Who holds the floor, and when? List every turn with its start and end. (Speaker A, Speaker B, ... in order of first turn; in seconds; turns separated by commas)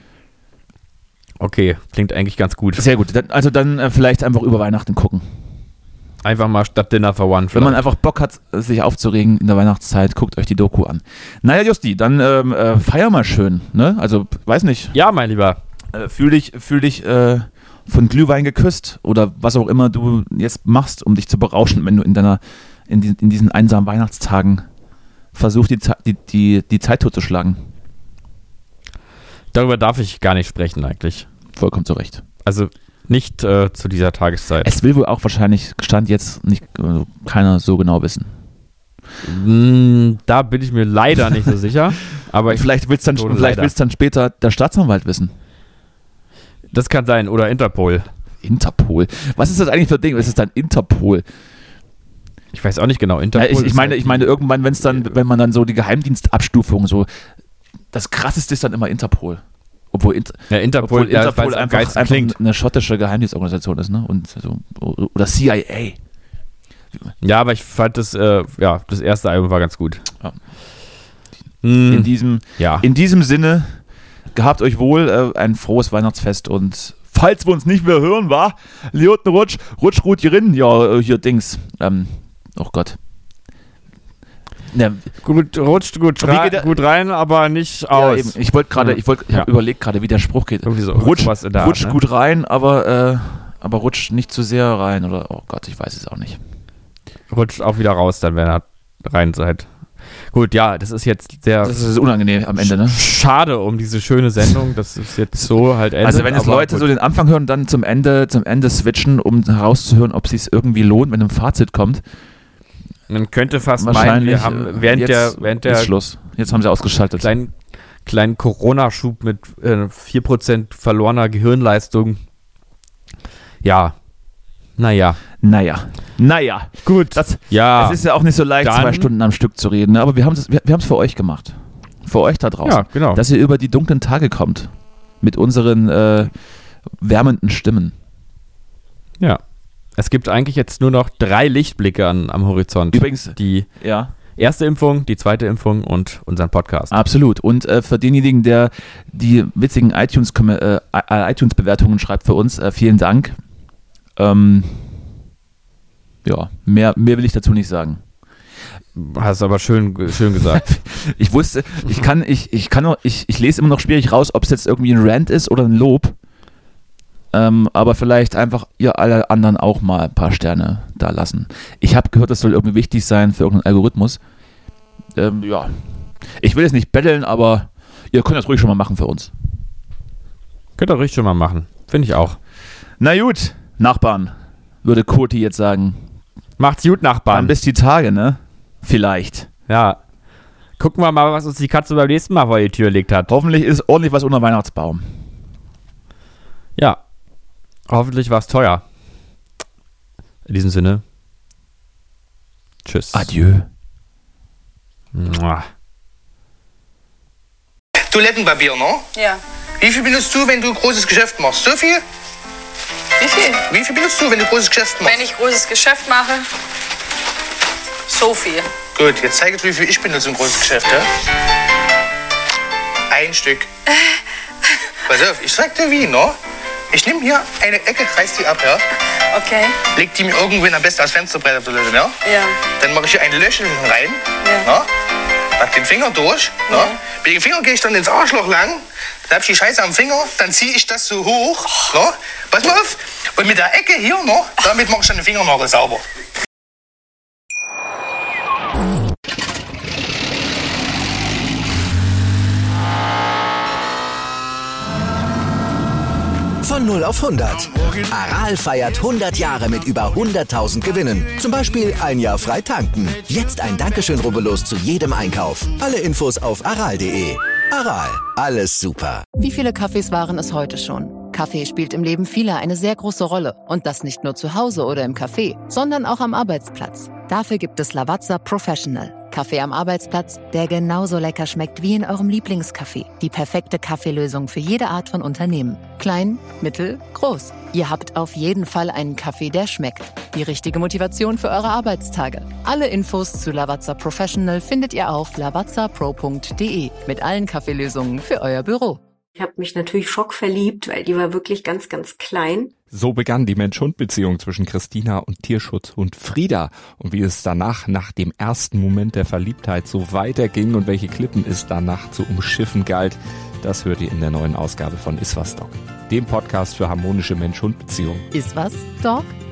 Speaker A: 1.4-2.9, Speaker B: 2.8-5.2, Speaker A: 6.2-7.8, Speaker B: 7.5-14.9, Speaker A: 14.9-15.6, Speaker B: 15.9-24.6, Speaker B: 25.3-27.7, Speaker A: 29.5-31.3, Speaker B: 31.5-32.2, Speaker A: 32.4-34.8, Speaker B: 34.6-38.3, Speaker A: 39.2-43.7, Speaker B: 42.5-45.3, Speaker A: 46.7-48.1, Speaker B: 48.4-51.2, Speaker A: 52.5-55.1, Speaker B: 53.3-57.1, Speaker B: 57.9-66.0, Speaker A: 60.5-62.4, Speaker A: 67.2-70.0, Speaker A: 71.6-72.8, Speaker B: 71.9-73.8, Speaker B: 74.3-83.0, Speaker B: 84.7-85.1, Speaker A: 85.2-89.5, Speaker B: 86.2-86.8, Speaker B: 87.9-96.4, Speaker A: 90.6-92.0, Speaker A: 97.3-99.7, Speaker A: 100.3-101.8, Speaker B: 101.6-103.0, Speaker A: 102.6-106.9, Speaker B: 106.0-112.0, Speaker A: 113.1-115.9, Speaker B: 113.8-117.3, Speaker A: 117.2-117.5, Speaker A: 118.0-122.2, Speaker A: 123.6-124.0, Speaker A: 124.8-125.2, Speaker B: 125.4-134.7, Speaker A: 126.8-128.0, Speaker A: 128.6-129.1, Speaker A: 132.6-133.2, Speaker B: 135.2-136.3, Speaker B: 137.0-137.9, Speaker A: 140.0-143.7, Speaker B: 142.9-144.1, Speaker A: 144.3-147.0, Speaker B: 146.9-153.3, Speaker B: 154.2-154.9, Speaker B: 156.2-158.0, Speaker A: 158.9-160.7, Speaker B: 160.5-166.2, Speaker B: 167.3-174.2, Speaker B: 175.1-175.7, Speaker B: 176.4-179.3, Speaker A: 180.8-182.4, Speaker B: 183.0-186.0, Speaker A: 186.6-187.5, Speaker B: 187.3-189.5, Speaker A: 189.7-190.0, Speaker A: 190.8-193.3, Speaker B: 193.3-195.1, Speaker A: 197.9-198.8, Speaker A: 200.4-201.0, Speaker A: 202.8-203.3, Speaker B: 203.1-203.7, Speaker A: 205.1-205.7, Speaker C: 208.1-209.1, Speaker D: 209.1-209.4, Speaker C: 209.8-212.0, Speaker D: 213.2-213.7, Speaker C: 213.7-215.2, Speaker D: 215.0-216.5, Speaker D: 218.1-218.7, Speaker C: 218.9-221.1, Speaker C: 223.1-223.7, Speaker D: 223.9-224.2, Speaker C: 225.1-226.4, Speaker C: 226.9-228.8, Speaker D: 229.3-229.8, Speaker C: 229.9-234.9, Speaker D: 232.2-232.6, Speaker D: 234.4-234.7, Speaker C: 235.6-246.0, Speaker D: 236.7-237.0, Speaker E: 256.6-269.2, Speaker F: 269.4-299.0, Speaker G: 299.4-302.7, Speaker H: 302.9-318.3, Speaker F: 318.3-319.3